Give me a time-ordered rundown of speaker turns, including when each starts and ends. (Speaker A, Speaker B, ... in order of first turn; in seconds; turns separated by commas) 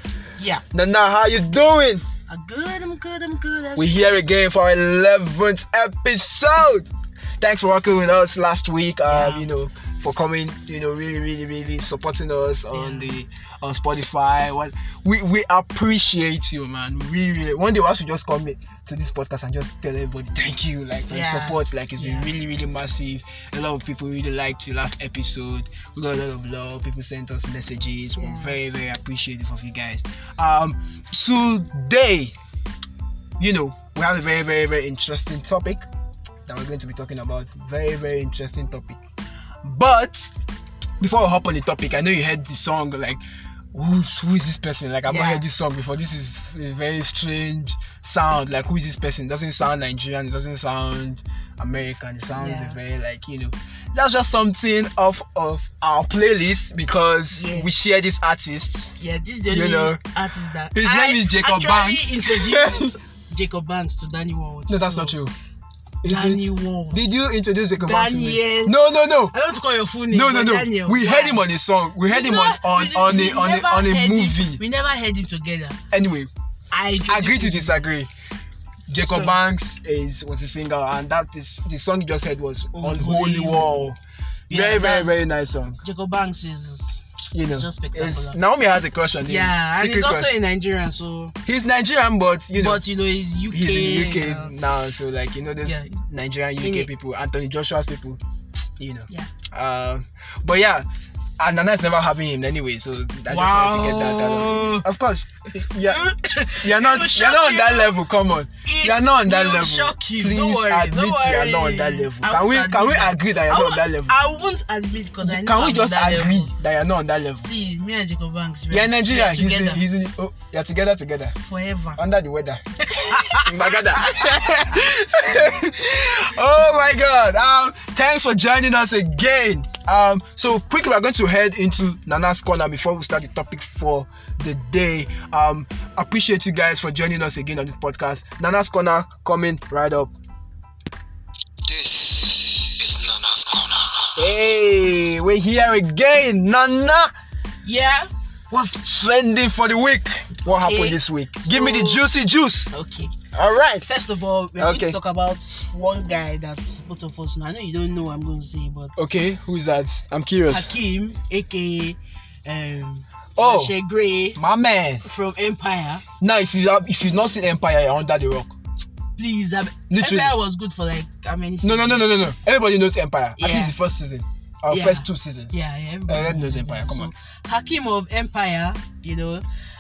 Speaker A: 0.4-0.6, Speaker B: 0.7-2.0, Speaker A: 2.3-4.1, Speaker B: 3.8-32.3, Speaker A: 9.1-9.5, Speaker A: 12.7-13.2, Speaker A: 21.1-22.3, Speaker A: 28.2-28.6, Speaker B: 33.4-35.8, Speaker B: 36.5-39.0, Speaker B: 39.6-40.3, Speaker B: 41.0-43.2, Speaker B: 43.7-58.9, Speaker A: 45.1-45.4, Speaker A: 52.3-52.8, Speaker A: 57.3-57.7, Speaker A: 59.0-65.2, Speaker B: 59.5-60.0, Speaker B: 60.7-63.0, Speaker B: 64.7-65.3, Speaker B: 66.0-69.3, Speaker A: 66.0-67.0, Speaker A: 67.8-71.4, Speaker B: 70.1-74.6, Speaker A: 72.1-75.8, Speaker B: 75.9-76.3, Speaker A: 76.7-77.7, Speaker B: 77.1-78.1, Speaker B: 78.9-84.0, Speaker A: 79.0-79.3, Speaker A: 82.7-83.8, Speaker A: 84.5-85.2, Speaker B: 84.5-85.8, Speaker A: 85.8-88.4, Speaker B: 87.3-90.3, Speaker A: 89.2-91.3, Speaker B: 91.4-92.8, Speaker A: 92.5-94.5, Speaker B: 93.5-98.2, Speaker A: 95.6-95.9, Speaker A: 96.6-96.9, Speaker B: 98.8-100.8, Speaker B: 101.4-106.0, Speaker A: 103.3-104.8, Speaker A: 105.8-108.0, Speaker B: 106.6-114.2, Speaker A: 108.6-116.5, Speaker B: 115.2-117.5, Speaker A: 117.4-119.8, Speaker B: 118.7-121.4, Speaker A: 121.4-122.0, Speaker B: 122.0-140.1, Speaker A: 122.9-124.5, Speaker C: 141.7-144.3, Speaker B: 144.2-147.1, Speaker A: 147.6-148.1, Speaker B: 148.5-152.7, Speaker A: 150.5-152.1, Speaker A: 152.7-153.1, Speaker B: 153.3-153.9, Speaker A: 153.8-159.1, Speaker B: 154.6-155.0, Speaker B: 158.9-160.7, Speaker A: 160.5-164.4, Speaker B: 163.4-163.8, Speaker B: 164.3-165.0, Speaker A: 165.0-166.0, Speaker B: 166.2-168.6, Speaker A: 169.2-172.1, Speaker B: 169.9-170.3, Speaker B: 171.6-177.1, Speaker A: 173.4-173.8, Speaker A: 174.7-179.4